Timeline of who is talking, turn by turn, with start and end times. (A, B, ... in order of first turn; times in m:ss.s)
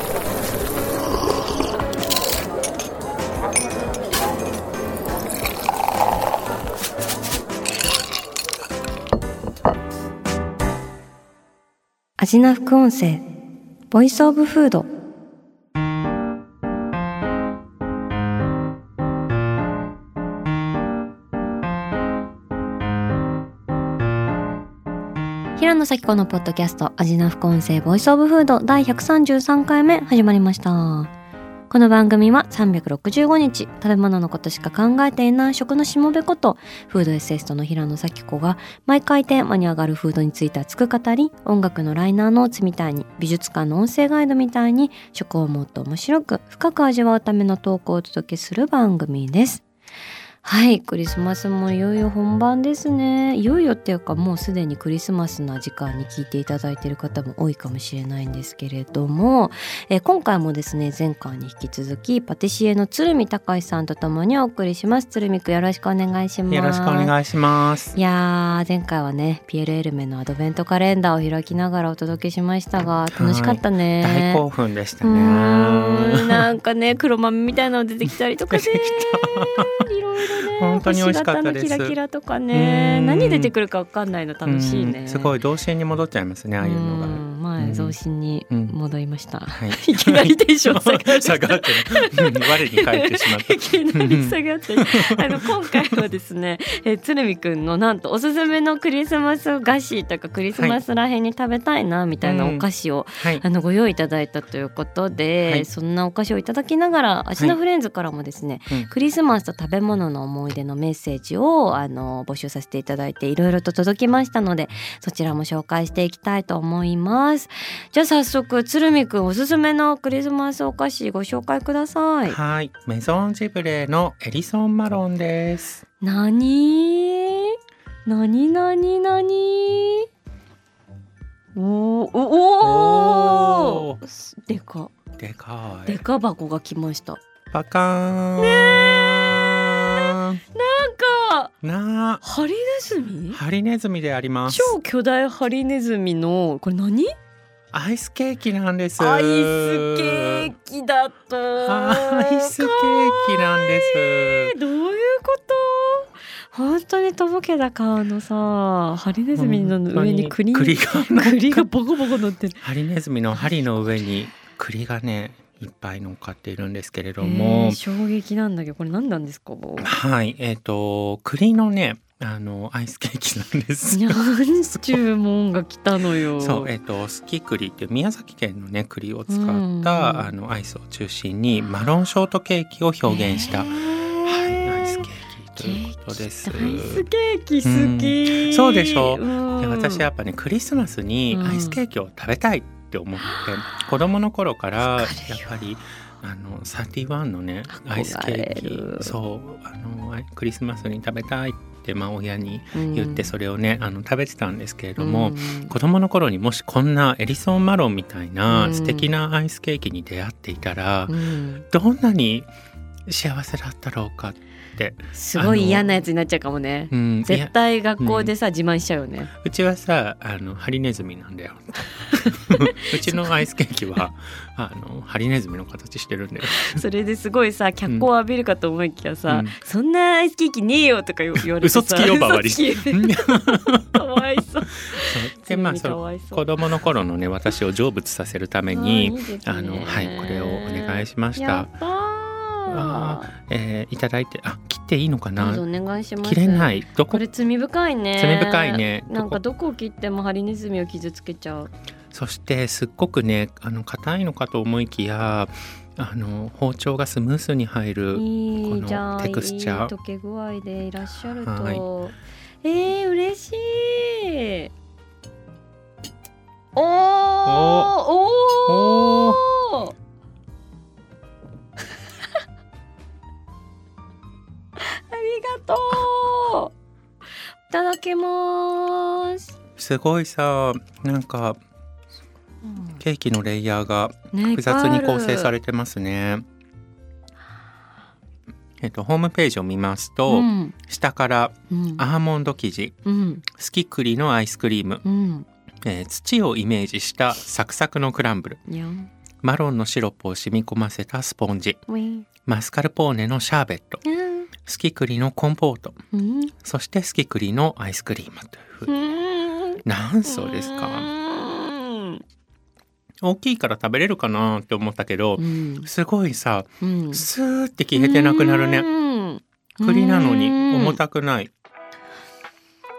0:12.2-0:13.2 A
0:13.9-0:14.9 A
0:25.6-0:31.1 A
0:31.7-0:49.6 A
0:50.4-1:07.1 A
1:06.5-1:08.0 B
1:07.9-1:14.4 A
1:13.1-1:16.4 B
1:15.0-1:25.3 A
1:18.5-1:19.8 B
1:20.6-1:22.0 B
1:22.5-1:23.5 B
1:24.4-1:28.0 B
1:26.6-2:02.4 A
1:29.6-1:35.9 B
1:42.2-1:42.6 B
1:43.2-1:43.4 B
2:02.3-2:05.8 B
2:06.0-2:07.5 A
2:08.0-2:10.1 A
2:11.6-2:14.9 A
2:12.6-2:14.0 B
2:15.2-2:16.0 B
2:15.8-2:17.2 A
2:17.5-2:20.4 B
2:18.4-2:21.5 A
2:21.6-2:22.2 B
2:22.2-2:23.4 A
2:23.3-2:24.7 B
2:24.5-2:27.1 A
2:27.7-2:30.5 B
2:29.0-2:42.6 A
2:31.6-2:34.5 B
2:39.3-2:41.6 B
2:42.6-2:47.8 B
2:43.4-2:43.6 A
2:47.2-2:49.9 A
2:49.8-2:55.0 B
2:53.9-2:56.7 A
2:56.4-3:07.0 B
2:59.3-3:00.3 A
3:03.1-3:05.0 A
3:05.6-3:10.0 A
3:07.6-3:31.1 B
3:11.3-3:11.8 A
3:13.2-3:13.8 A
3:14.8-3:15.5 A
3:17.7-3:19.1 A
3:22.7-3:23.3 A
3:25.0-3:25.7 A
3:28.5-3:29.1 A
3:31.1-3:31.6 A
3:31.7-3:32.5 B
3:33.1-3:35.8 B
3:35.1-3:39.3 A
3:36.9-3:38.3 B
3:39.3-3:46.8 B
3:42.1-3:43.4 A
3:46.5-3:56.4 A
3:49.3-3:49.6 B
3:51.4-3:53.9 B
3:54.9-4:01.7 B
3:58.7-4:03.3 A
4:02.7-4:05.6 B
4:05.4-4:11.7 A
4:06.2-4:07.2 B
4:08.2-4:09.4 B
4:12.1-4:19.9 B
4:18.1-4:24.7 A
4:21.4-4:21.8 B
4:26.8-4:29.9 A
4:27.4-4:27.9 B
4:28.7-4:29.4 B
4:34.8-4:36.7 A
4:37.7-4:39.5 A
4:39.8-4:41.6 B
4:42.6-4:43.0 A
4:43.0-4:46.4 B
4:44.3-4:45.5 A
4:48.8-4:53.0 B
4:50.3-4:50.8 A
4:51.7-4:52.0 A
4:53.0-4:53.4 A
4:53.5-4:55.0 B
4:55.0-4:55.4 A
4:55.8-4:58.6 B
4:58.7-4:59.1 A
4:59.4-5:01.8 B
5:01.9-5:02.2 A
5:02.4-5:04.0 B
5:04.0-5:04.5 A
5:04.6-5:06.0 B
5:06.1-5:06.5 A
5:06.6-5:08.9 B
5:08.9-5:12.2 A
5:09.8-5:11.1 B
5:13.2-5:18.9 B
5:15.4-5:15.9 A
5:16.8-5:17.2 A
5:17.9-5:21.0 A
5:19.8-5:21.5 B